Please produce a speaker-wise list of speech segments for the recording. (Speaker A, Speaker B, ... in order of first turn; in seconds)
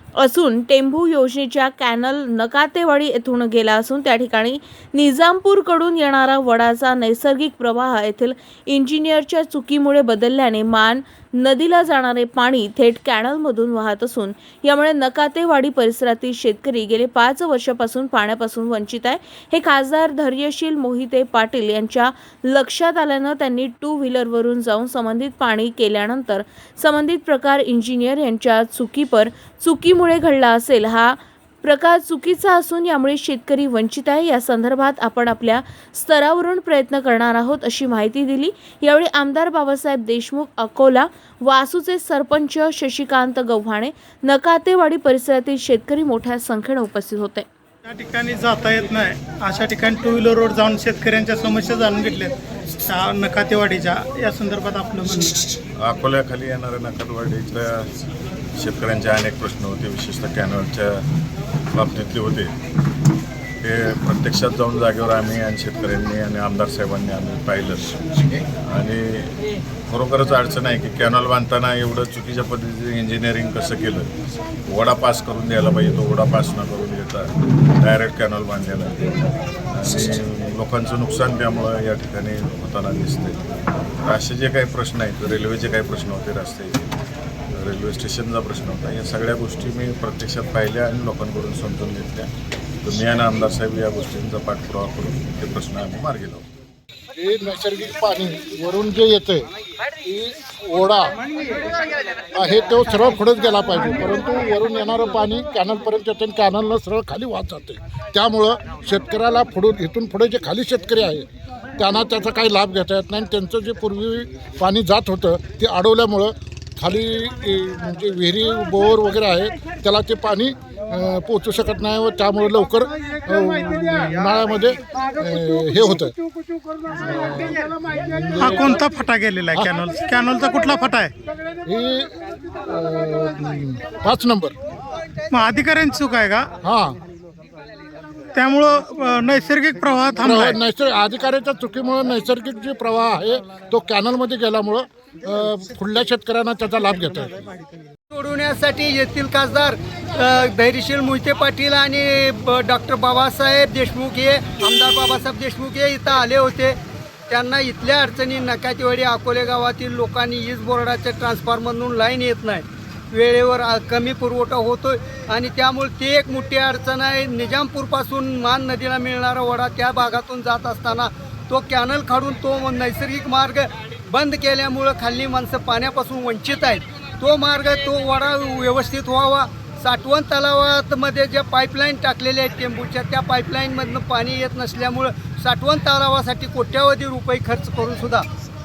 Speaker A: 0.2-47.5
Speaker B: 47.9-55.4, 128.4-131.1, 135.3-136.5, 138.3-140.6
Speaker C: 55.8-58.0, 58.6-61.0, 61.7-62.5, 63.6-68.0, 68.6-69.4, 69.9-74.1, 74.7-83.4, 84.0-86.9, 87.5-92.3, 92.8-96.4
Speaker D: 97.2-99.5, 100.0-101.1, 102.3-126.1, 126.9-128.8, 131.7-132.1, 132.7-134.6, 136.6-137.0, 140.2-147.5
Speaker E: 148.1-156.8, 157.3-188.3